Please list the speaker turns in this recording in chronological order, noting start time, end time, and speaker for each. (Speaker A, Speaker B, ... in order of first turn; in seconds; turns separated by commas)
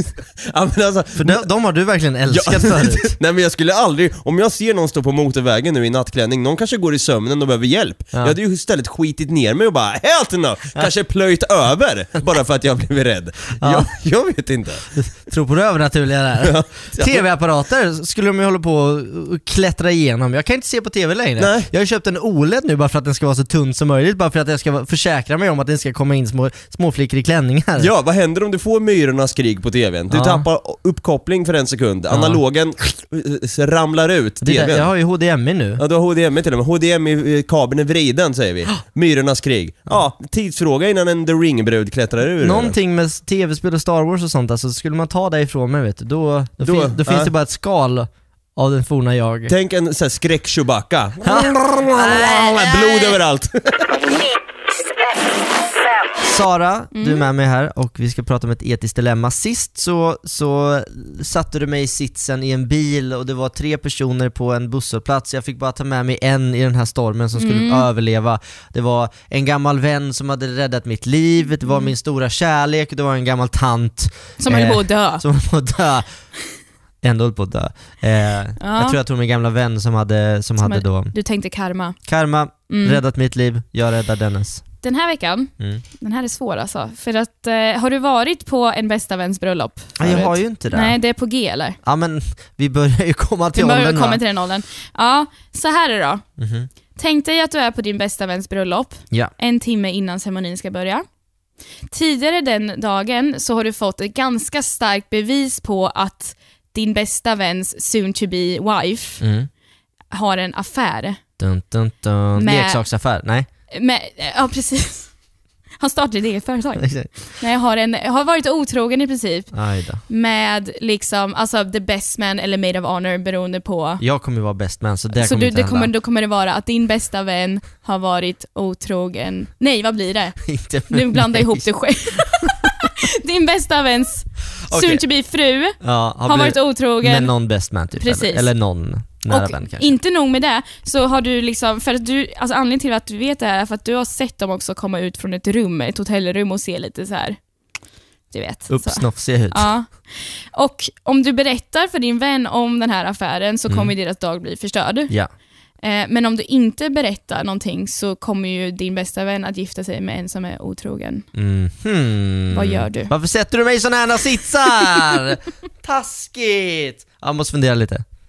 Speaker A: 0.5-1.5, Speaker B: 1.2-3.1, Speaker A: 2.3-14.9, Speaker B: 13.6-13.9, Speaker B: 14.9-27.9, Speaker A: 16.4-17.2, Speaker A: 21.4-21.7, Speaker A: 27.8-34.9, Speaker B: 30.1-30.4, Speaker B: 32.1-32.4, Speaker B: 34.4-35.8, Speaker A: 35.8-42.8, Speaker B: 42.4-49.5, Speaker A: 46.6-47.3, Speaker A: 49.5-54.0, Speaker B: 51.2-52.7, Speaker B: 56.2-76.1, Speaker C: 57.0-57.3, Speaker C: 67.4-67.9, Speaker C: 71.7-71.9, Speaker C: 74.4-75.2, Speaker B: 77.0-81.2, Speaker C: 78.6-79.0, Speaker C: 80.6-82.0, Speaker B: 82.1-84.7, Speaker C: 82.7-83.0, Speaker C: 84.8-91.8, Speaker B: 90.0-91.0, Speaker B: 91.8-94.2, Speaker C: 93.5-96.2, Speaker B: 96.4-96.7, Speaker C: 97.0-101.0, Speaker C: 101.9-109.2, Speaker B: 109.2-109.5, Speaker C: 110.1-111.2, Speaker B: 111.4-113.5, Speaker C: 112.4-112.8, Speaker C: 113.7-115.1, Speaker C: 115.8-119.5, Speaker B: 116.8-117.1, Speaker B: 119.5-120.0, Speaker C: 120.1-124.0, Speaker B: 124.0-125.9, Speaker C: 125.2-137.3, Speaker B: 130.5-131.5, Speaker B: 134.7-135.0, Speaker B: 135.8-139.9, Speaker C: 138.0-138.5, Speaker C: 139.3-147.4, Speaker C: 148.3-155.1, Speaker B: 148.7-149.7, Speaker C: 155.8-161.3, Speaker B: 161.3-168.0, Speaker C: 162.5-163.1